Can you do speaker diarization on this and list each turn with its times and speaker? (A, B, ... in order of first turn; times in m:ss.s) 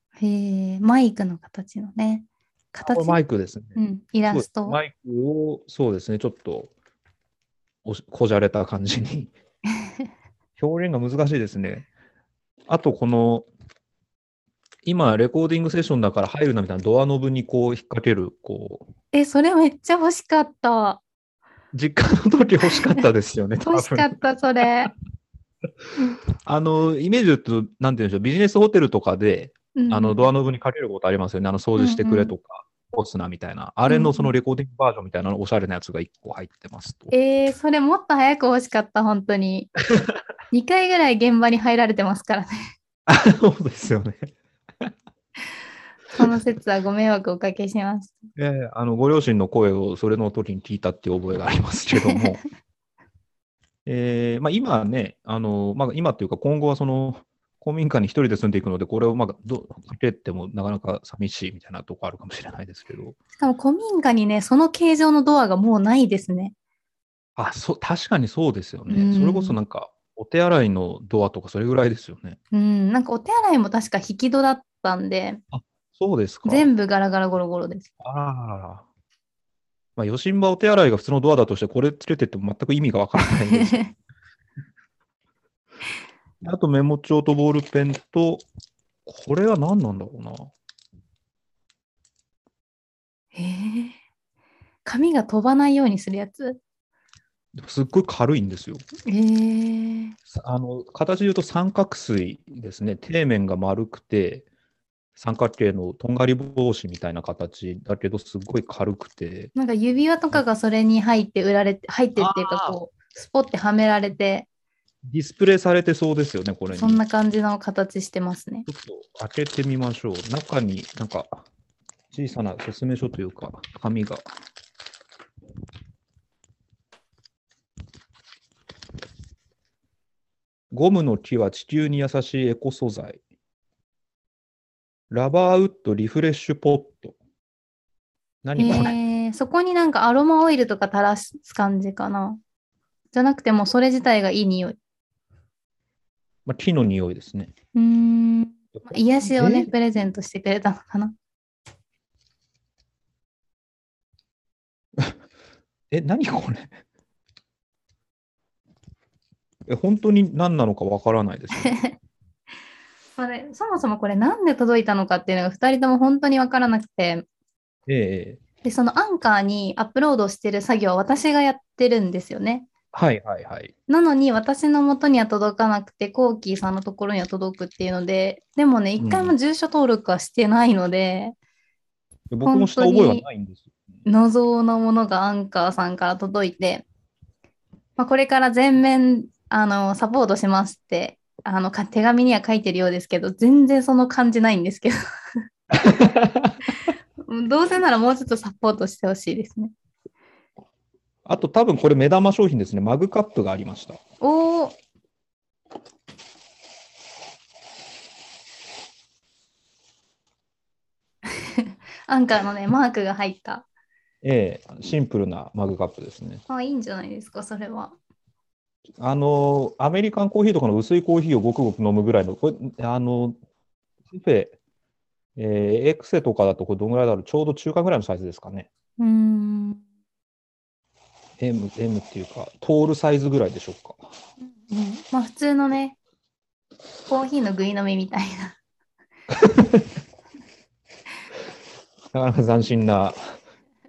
0:00.2-0:03.2 A
0:02.8-0:03.8 B
0:03.8-0:04.8 A
0:04.3-0:06.7 B
0:07.8-0:09.3 B
0:10.6-0:11.9 B
0:12.7-0:13.5 B
0:14.8-0:18.9 B
0:19.1-0:21.0 A
0:21.7-0:24.1 B
0:23.6-0:24.9 A
0:26.4-0:37.1 B
0:29.8-0:30.3 A
0:31.8-0:32.4 A
0:33.9-0:34.3 A
0:37.1-0:39.7 A
0:40.5-0:42.6 A
0:43.1-0:44.3 B
0:46.2-0:48.2 A
0:48.4-0:52.4 B
0:53.8-1:03.2 B
1:03.4-1:06.5 A
1:07.4-1:12.4 B
1:08.9-1:09.6 A
1:12.5-1:15.4 A
1:15.5-1:16.7 B
1:16.4-1:17.9 A
1:18.0-1:18.8 B
1:20.0-1:23.8 B
1:23.2-1:23.9 A
1:26.4-1:28.4 B
1:29.1-1:30.5 B
1:33.4-1:34.0 A
1:34.8-1:36.6 A
1:37.6-1:38.8 B
1:39.1-1:40.2 A
1:40.3-1:44.4 B
1:45.2-1:49.5 B
1:49.6-1:54.5 A
1:52.2-1:52.8 B
1:55.1-1:57.0 B
1:56.7-1:58.7 A
1:58.7-2:01.4 B
2:02.1-2:04.2 B
2:10.7-2:13.2 B
2:15.1-2:17.2 B
2:18.4-2:19.0 B
2:18.6-2:22.4 A
2:23.1-2:24.8 A
2:26.5-2:27.5 B
2:27.8-2:31.1 A
2:28.8-2:29.7 B
2:35.9-2:36.8 B
2:39.7-2:41.8 B
2:41.6-2:41.9 A
2:43.2-2:47.2 A
2:47.9-2:48.4 B
2:48.6-2:52.7 A
2:52.9-2:53.7 B
2:53.9-3:01.4 A
2:59.0-2:59.4 B
3:02.3-3:03.7 B
3:02.4-3:03.2 A
3:04.1-3:06.9 A
3:08.0-3:15.0 A
3:15.7-3:16.6 B
3:17.3-3:19.7 A
3:21.2-3:24.0 B
3:24.2-3:24.8 A
3:31.6-3:33.7 A
3:34.2-3:36.4 B
3:36.5-3:38.0 A
3:39.0-3:43.4 B
3:44.1-3:44.6 B
3:45.4-3:48.7 B
3:49.0-3:49.8 A
3:51.4-3:54.0 B
3:54.4-3:56.0 A
3:57.1-3:58.6 A
3:59.3-3:59.9 B
4:02.1-4:03.3 B